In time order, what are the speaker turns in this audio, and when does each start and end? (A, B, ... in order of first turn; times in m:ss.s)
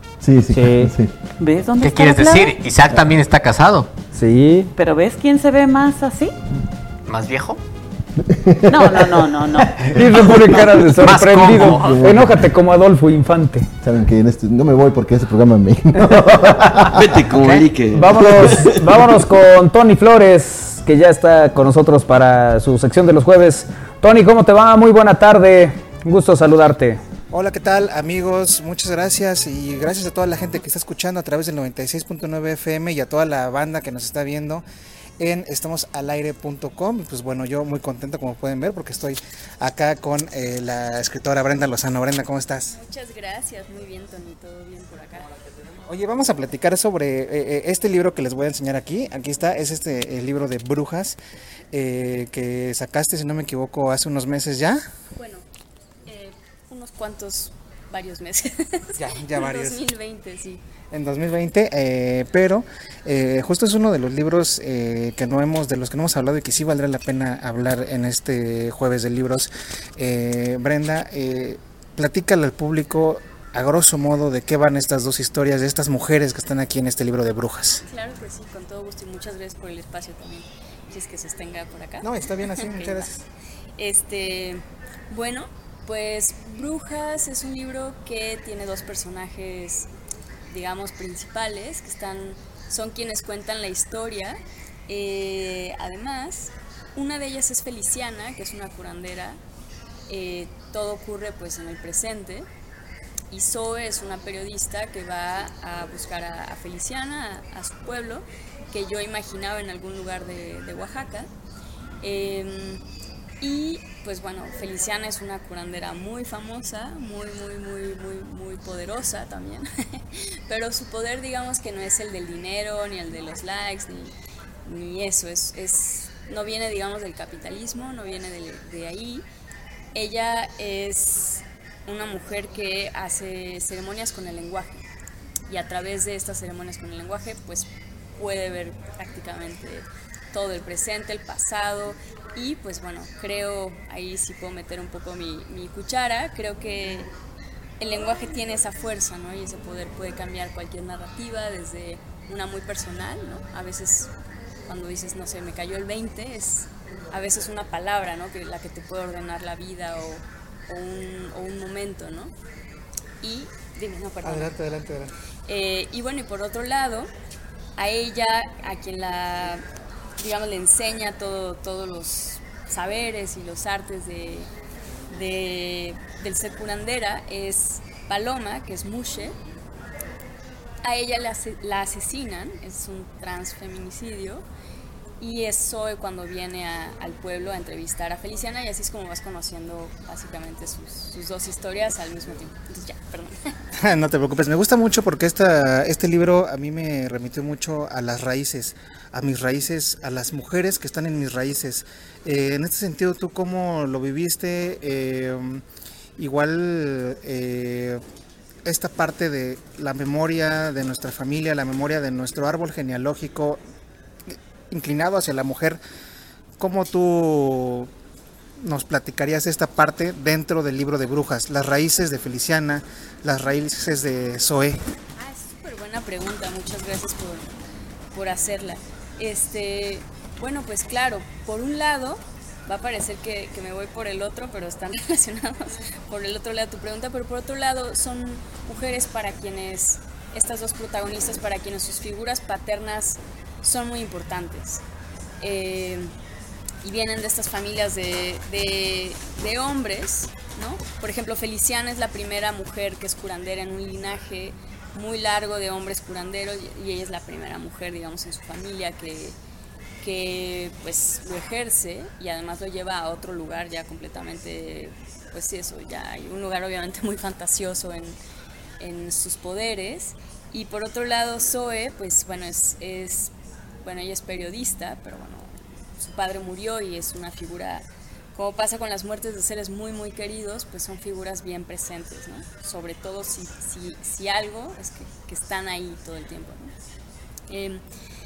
0:00.2-0:01.1 A
0:00.5-0:00.9 B
0:01.4-0:02.6 C
0:01.8-0:03.9 D
0:04.1-0:04.7 B
0:04.8-0:06.4 C
0:07.1-0:07.6 D
0:08.3-0:09.1 A
0:08.7-0:09.8 C
0:09.8-0:13.7 B
0:11.0-0:12.0 D
0:11.4-0:12.4 A
0:13.8-0:17.3 A
0:16.8-0:18.8 E
0:17.9-0:27.0 B
0:27.3-0:34.6 F
0:35.2-0:42.8 F
0:42.6-0:45.3 G
0:45.9-0:51.2 F
0:51.7-0:54.8 F
0:55.1-0:55.4 G
0:56.1-1:00.6 G
0:59.0-0:59.9 F
1:00.9-1:17.8 F
1:17.9-1:23.1 G
1:22.0-1:23.2 F
1:23.8-1:29.9 G
1:30.5-1:39.4 G
1:40.1-1:42.5 G
1:43.3-1:51.3 G
1:52.0-1:52.8 G
1:53.4-2:04.1 G
2:04.7-2:09.2 G
2:09.9-2:14.8 G
2:15.5-2:27.1 G
2:27.8-2:34.1 G
2:34.7-2:42.3 G
2:43.2-2:44.6 G
2:44.2-2:45.1 F
2:45.5-2:47.1 G
2:47.8-2:49.6 G
2:50.2-2:54.5 G
2:55.1-2:59.4 G
3:00.8-3:04.4 G
3:05.2-3:13.4 G
3:13.8-3:25.6 F
3:26.2-3:28.0 F
3:28.6-3:33.6 F
3:34.3-3:35.8 F
3:36.6-3:37.9 F
3:38.6-3:44.8 F
3:45.2-3:47.6 G
3:48.1-4:04.8 G
4:05.4-4:06.1 G
4:06.8-4:19.4 G
4:20.0-4:28.2 G
4:28.8-4:33.3 G
4:33.8-4:46.7 G
4:47.5-4:47.8 G